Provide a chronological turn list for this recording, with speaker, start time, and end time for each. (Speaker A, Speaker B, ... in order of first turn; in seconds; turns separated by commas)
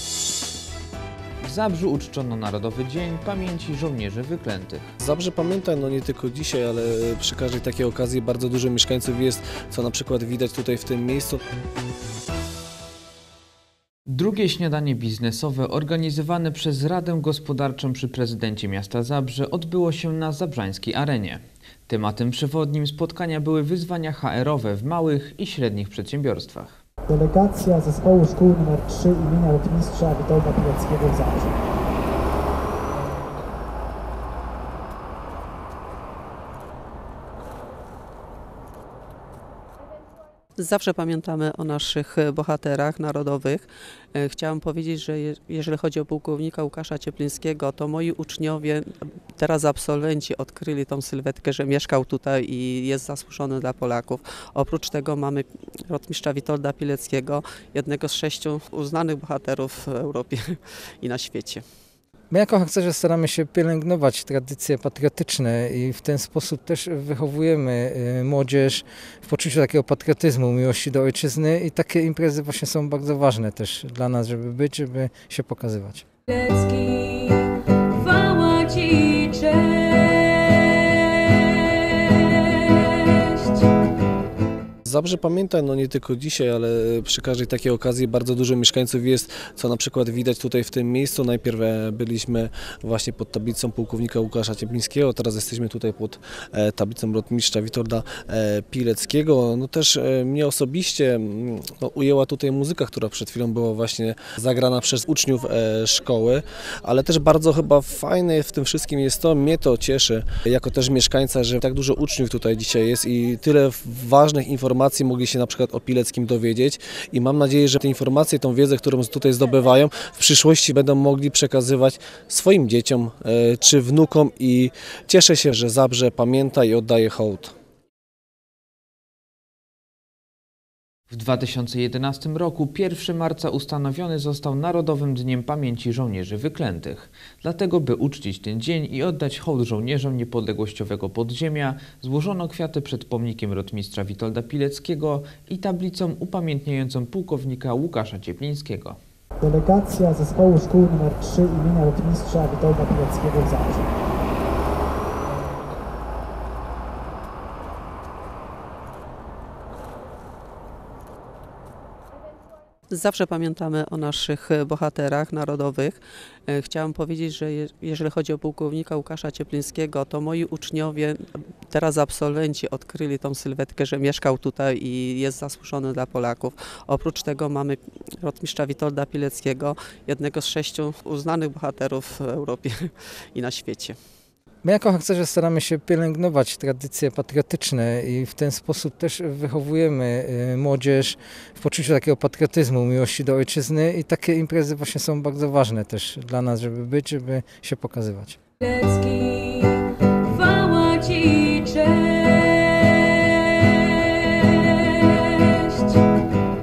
Speaker A: 1.4-4.9, Speaker B: 5.0-11.4, Speaker A: 14.1-26.8, Speaker C: 27.1-31.5, Speaker D: 40.6-61.6, Speaker E: 62.3-76.0, Speaker F: 76.3-83.7, Speaker B: 84.8-127.5, Speaker A: 131.1-149.0, Speaker C: 149.4-153.8, Speaker D: 162.9-184.0, Speaker E: 184.6-198.4, Speaker F: 198.6-206.1